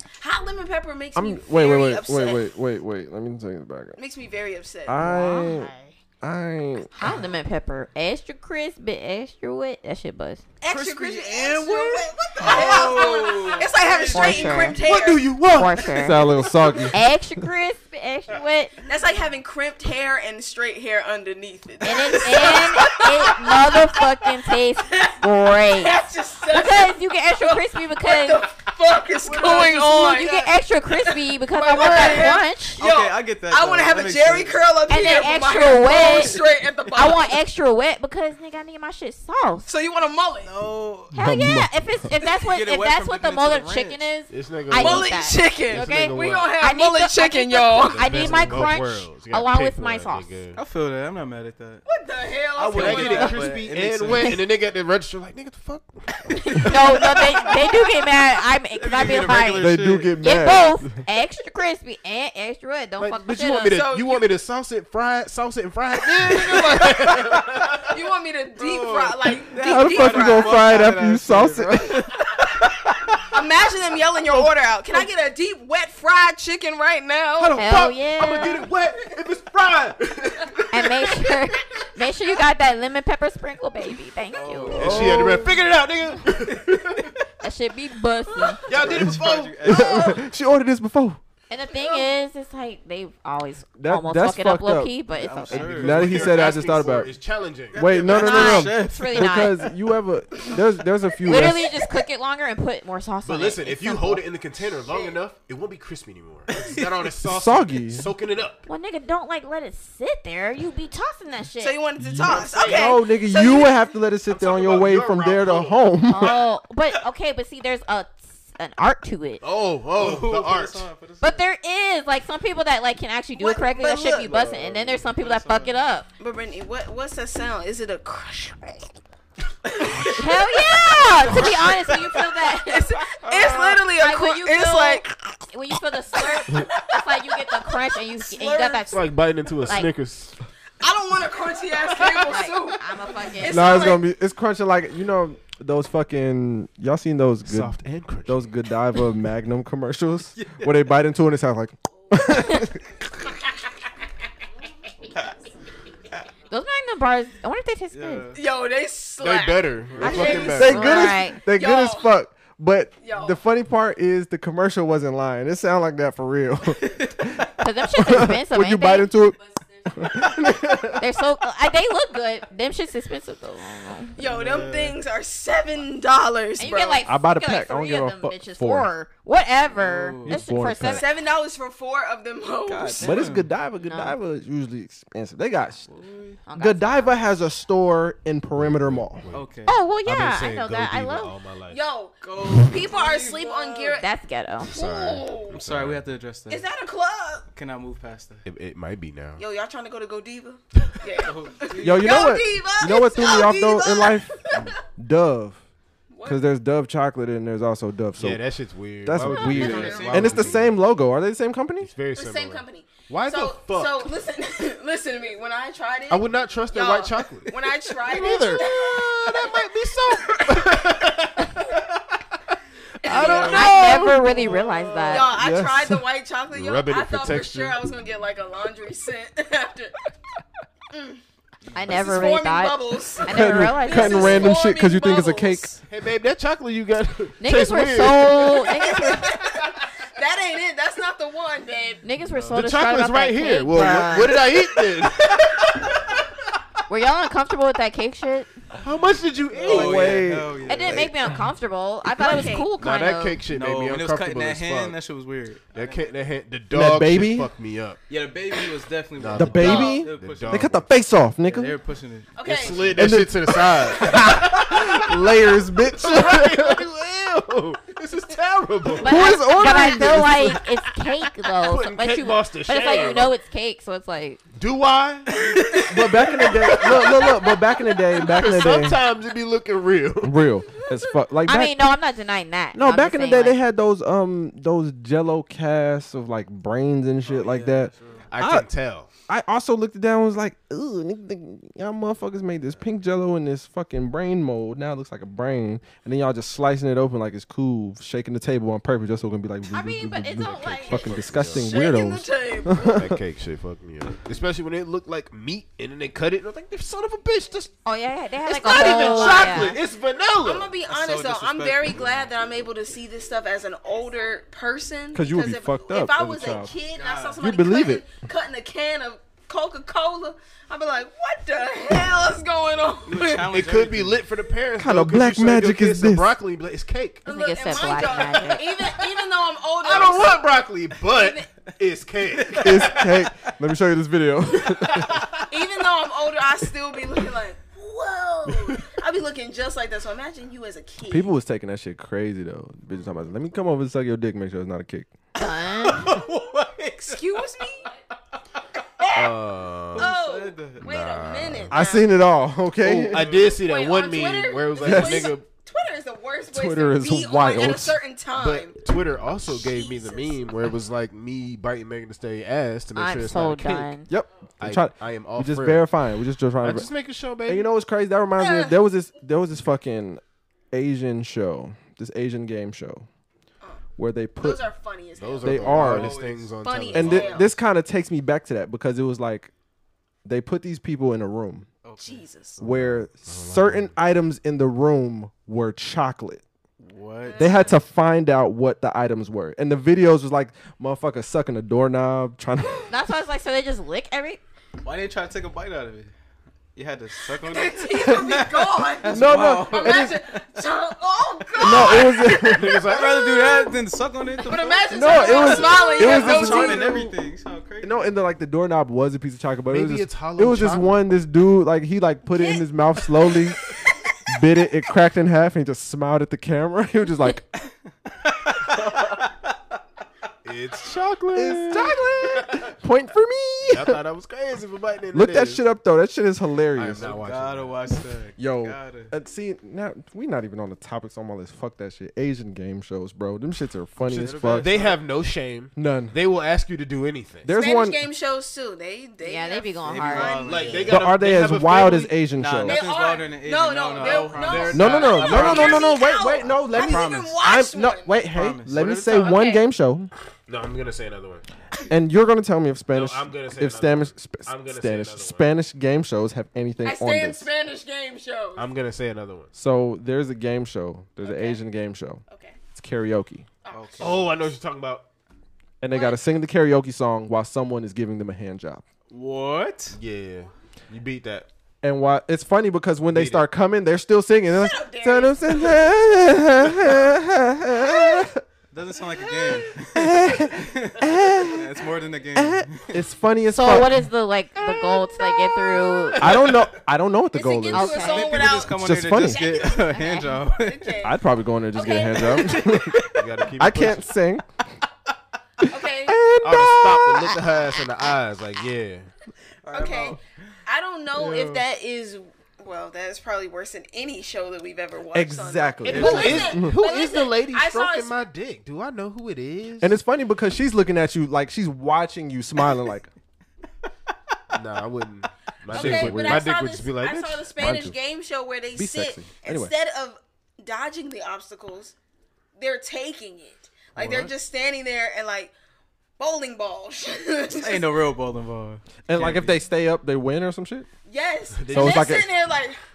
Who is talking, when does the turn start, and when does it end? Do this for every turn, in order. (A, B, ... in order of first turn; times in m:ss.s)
0:00.2-0:02.5 A
0:01.1-0:04.0 B
0:04.0-0:05.0 A
0:04.9-0:05.7 B
0:05.0-0:05.9 C
0:06.2-0:06.9 B
0:06.9-0:10.4 C
0:10.6-0:15.3 A
0:10.7-0:14.6 D
0:12.4-0:12.8 E
0:14.1-0:14.8 C
0:14.8-0:16.5 E
0:15.5-0:16.3 C
0:16.0-0:16.9 B
0:16.9-0:18.7 C
0:18.8-0:24.3 A
0:21.8-0:28.5 C
0:24.8-0:37.4 A
0:29.2-0:29.9 E
0:29.8-0:32.8 C
0:31.8-0:34.7 D
0:34.9-0:36.4 C
0:36.9-0:39.7 C
0:39.6-0:40.5 A
0:40.4-0:41.1 D
0:41.1-0:42.0 B
0:41.1-0:50.3 C
0:42.3-0:44.0 D
0:44.3-0:46.6 E
0:44.7-0:48.3 A
0:47.9-0:50.6 E
0:50.5-0:51.8 D
0:51.8-0:53.5 A
0:52.6-0:54.4 D
0:52.7-0:56.8 E
0:56.6-1:03.8 C
0:58.8-1:00.1 D
0:59.5-1:00.9 B
1:03.0-1:07.9 E
1:03.6-1:04.2 A
1:06.2-1:10.8 A
1:08.6-1:12.1 D
1:09.6-1:12.1 B
1:13.3-1:17.6 A
1:17.4-1:21.2 E
1:17.6-1:18.7 C
1:20.7-1:24.9 C
1:24.3-1:25.3 D
1:24.7-1:25.5 B
1:24.7-1:27.1 E
1:26.7-1:27.0 D
1:27.4-1:28.6 C
1:28.6-1:30.2 D
1:28.6-1:29.8 E
1:28.8-1:31.2 B
1:31.5-1:35.8 C
1:31.7-1:32.1 A
1:33.8-1:37.1 B
1:35.1-1:36.4 D
1:35.7-1:38.0 E
1:37.7-1:39.3 D
1:37.7-1:41.7 B
1:38.1-1:39.6 C
1:41.2-1:44.2 C
1:43.2-1:48.6 E
1:44.9-1:45.2 A
1:47.2-1:48.1 B
1:48.6-1:51.8 C
1:51.6-1:53.8 A
1:52.0-1:56.4 B
1:52.2-1:53.0 E
1:54.3-1:55.8 E
1:56.1-1:59.4 C
1:59.4-2:00.8 E
1:59.9-2:01.4 D
2:01.2-2:06.1 C
2:03.4-2:04.3 A
2:04.3-2:04.7 E
2:04.7-2:05.7 D
2:06.2-2:08.8 A
2:09.7-2:10.3 D
2:10.1-2:13.0 C
2:12.5-2:15.1 A
2:13.2-2:13.8 D
2:13.9-2:19.0 C
2:16.1-2:17.6 A
2:18.1-2:19.1 A
2:18.9-2:20.4 E
2:19.6-2:19.9 C
2:20.8-2:24.0 A
2:22.2-2:24.0 C
2:23.5-2:33.0 B
2:27.4-2:28.4 E
2:30.4-2:30.7 D
2:36.5-2:38.3 C
2:37.9-2:38.4 D
2:38.3-2:42.1 A
2:39.2-2:40.9 E
2:39.9-2:40.5 D
2:40.0-2:41.4 C
2:40.5-2:49.4 B
2:43.0-2:43.4 A
2:47.6-2:49.1 C
2:49.9-2:51.0 B
2:51.0-2:54.1 C
2:54.2-2:57.1 A
2:54.2-2:55.0 D
2:56.6-3:01.0 C
2:57.0-2:58.9 B
2:59.8-3:00.4 D
3:00.2-3:01.0 B
3:00.8-3:03.2 A
3:02.7-3:03.5 D
3:03.0-3:05.9 B
3:03.8-3:04.2 C
3:05.9-3:06.4 D
3:06.4-3:07.2 C
3:06.6-3:09.2 B
3:08.6-3:09.5 E
3:09.3-3:09.8 D
3:09.7-3:11.3 C
3:10.0-3:11.8 E
3:11.7-3:14.1 A
3:12.2-3:14.0 D
3:14.0-3:14.7 C
3:14.7-3:16.0 E
3:14.7-3:15.6 A
3:15.5-3:16.6 D
3:16.5-3:17.4 A
3:17.5-3:18.4 D
3:18.4-3:19.4 E
3:19.4-3:24.7 A
3:21.2-3:22.3 D
3:21.8-3:25.6 B
3:26.1-3:26.4 A
3:26.2-3:28.4 B
3:28.2-3:30.8 E
3:29.0-3:31.9 B
3:29.5-3:30.1 C
3:29.5-3:30.2 A
3:29.7-3:30.6 D
3:31.8-3:34.1 E
3:32.1-3:39.7 A
3:36.1-3:41.9 E
3:43.0-3:44.4 A
3:43.1-3:45.3 C
3:43.1-3:43.8 D
3:43.4-3:44.2 B
3:45.1-3:49.9 A
3:45.2-3:46.0 B
3:46.5-3:47.8 E
3:50.9-3:51.2 A
3:51.7-3:54.6 C
3:51.8-3:55.8 A
3:53.2-3:55.7 B
3:55.9-3:58.4 E
3:57.4-3:59.5 C
3:58.6-4:02.0 A
4:02.0-4:04.4 C
4:02.2-4:02.6 D
4:02.5-4:06.0 E
4:03.7-4:04.1 B
4:06.9-4:08.5 C
4:08.8-4:10.3 E
4:09.6-4:11.1 B
4:09.6-4:11.2 D
4:10.6-4:13.4 C
4:12.1-4:12.7 A
4:12.8-4:15.0 E
4:13.5-4:16.0 D
4:15.7-4:18.0 E
4:16.7-4:17.5 B
4:18.1-4:20.7 D
4:19.2-4:20.9 E
4:19.3-4:21.8 B
4:19.6-4:20.0 A
4:21.4-4:22.9 D
4:22.3-4:23.1 A
4:22.4-4:25.4 E
4:22.9-4:26.9 B
4:26.0-4:30.6 E
4:29.0-4:30.6 B
4:29.0-4:34.4 C
4:31.5-4:33.3 E
4:34.5-4:35.8 E
4:35.4-4:36.0 D
4:35.5-4:37.6 A
4:35.9-4:39.0 B
4:36.7-4:37.2 E
4:38.1-4:38.8 A
4:38.2-4:40.4 E
4:40.2-4:41.9 B
4:41.4-4:43.6 C
4:42.7-4:48.7 B
4:47.2-4:48.3 D
4:48.3-4:49.1 E
4:49.3-5:03.2 B
4:59.7-5:01.2 C
5:00.8-5:01.7 E
5:01.5-5:03.0 A
5:02.9-5:07.7 E
5:07.8-5:09.8 C
5:08.4-5:10.7 E
5:08.7-5:09.7 A
5:10.4-5:23.5 A
5:10.9-5:12.3 D
5:15.1-5:16.7 B
5:16.9-5:17.4 D
5:17.4-5:18.1 B
5:23.0-5:24.3 D
5:23.4-5:27.2 E
5:24.8-5:26.4 B
5:27.2-5:30.5 A
5:27.2-5:28.7 C
5:28.0-5:28.4 D
5:29.8-5:33.1 E
5:31.0-5:31.5 A
5:32.3-5:33.5 D
5:32.6-5:35.2 B
5:34.6-5:35.1 D
5:35.1-5:35.4 E
5:35.5-5:41.3 A
5:38.5-5:38.9 E
5:41.1-5:45.1 B
5:45.4-5:46.1 C
5:45.8-5:47.4 D
5:47.0-5:47.9 A
5:49.0-5:49.3 A
5:49.1-5:50.1 E
5:49.9-5:50.9 D
5:49.9-5:52.1 A
5:50.8-5:51.8 E
5:51.7-5:53.3 B
5:52.8-5:55.5 E
5:53.0-5:53.6 D
5:53.4-5:58.8 A
5:54.8-5:55.3 B
5:56.5-5:58.0 B
5:58.4-6:03.9 E
5:59.4-6:00.5 A
6:02.9-6:04.1 C
6:04.1-6:06.9 B
6:04.6-6:05.9 E
6:06.6-6:07.7 E
6:07.4-6:13.1 B
6:08.4-6:08.8 A
6:14.0-6:14.6 B
6:14.4-6:16.0 A
6:15.2-6:17.4 E
6:15.4-6:16.2 B
6:15.7-6:16.5 D
6:16.6-6:17.5 A
6:16.9-6:19.5 B
6:20.2-6:21.7 B
6:21.8-6:22.2 D
6:22.0-6:22.6 A
6:22.6-6:23.9 E
6:22.6-6:26.4 B
6:26.8-6:27.7 D
6:27.2-6:27.8 A
6:27.4-6:32.9 B
6:32.9-6:34.4 C
6:34.8-6:36.1 D
6:36.8-6:40.4 D
6:37.3-6:42.5 A
6:39.1-6:40.2 B
6:41.6-6:42.8 B
6:41.8-6:43.6 E
6:42.9-6:48.2 D
6:44.4-6:47.1 A
6:44.9-6:47.1 B
6:47.8-6:53.6 B
6:49.7-6:50.9 E
6:54.3-6:57.4 B
6:58.2-6:59.3 D
7:00.4-7:02.7 E
7:01.3-7:04.0 B
7:03.7-7:05.6 E
7:05.1-7:07.1 B
7:06.7-7:07.7 E
7:07.0-7:09.1 D
7:08.4-7:14.7 B
7:14.0-7:17.5 E
7:14.1-7:15.0 D
7:15.7-7:16.1 B
7:17.4-7:18.0 B
7:17.5-7:21.1 A
7:19.2-7:20.5 C
7:19.8-7:21.0 D
7:20.4-7:22.2 E
7:20.9-7:22.8 B
7:22.4-7:26.0 D
7:22.6-7:28.3 A
7:24.0-7:25.9 E
7:24.7-7:30.1 B
7:26.7-7:27.4 D
7:28.3-7:29.4 D
7:29.2-7:29.6 A
7:30.5-7:31.4 E
7:31.9-7:37.5 B
7:32.9-7:35.5 E
7:36.8-7:38.7 A
7:38.5-7:39.5 E
7:39.5-7:42.2 B
7:41.2-7:41.6 A
7:42.3-7:42.6 A
7:42.7-7:43.5 B
7:43.6-7:44.3 A
7:43.7-7:44.2 D
7:44.0-7:45.0 E
7:45.8-7:48.8 B
7:45.9-7:46.2 A
7:49.1-7:50.0 D
7:49.9-7:51.5 E
7:51.8-7:58.4 B
7:53.1-7:53.4 E
7:54.5-7:56.0 A
7:57.9-7:58.2 A
7:58.7-8:03.0 D
7:59.1-7:59.6 A
7:59.9-8:03.9 B
8:03.5-8:06.2 C
8:05.6-8:05.9 A
8:06.1-8:06.5 E
8:06.2-8:09.6 B
8:07.3-8:09.9 A
8:07.7-8:08.2 C
8:08.0-8:10.9 D
8:09.6-8:10.4 C
8:10.5-8:11.2 A
8:11.0-8:14.5 B
8:11.7-8:12.8 A
8:12.3-8:13.1 D
8:13.1-8:14.0 E
8:15.6-8:17.4 B
8:15.7-8:16.2 A
8:16.4-8:19.1 E
8:19.6-8:20.2 D
8:19.7-8:28.1 A
8:21.1-8:21.6 B
8:25.1-8:26.8 B
8:25.8-8:30.0 E
8:25.9-8:26.4 D
8:29.8-8:33.1 B
8:34.5-8:37.4 E
8:35.7-8:41.9 A
8:35.7-8:36.5 B
8:37.6-8:38.0 B
8:38.8-8:39.7 B
8:42.6-8:45.5 A
8:46.2-8:47.9 A
8:47.5-8:48.8 D
8:49.1-8:50.9 B
8:49.1-8:49.5 E
8:51.1-8:52.8 A
8:51.6-8:52.2 E
8:51.7-8:52.3 B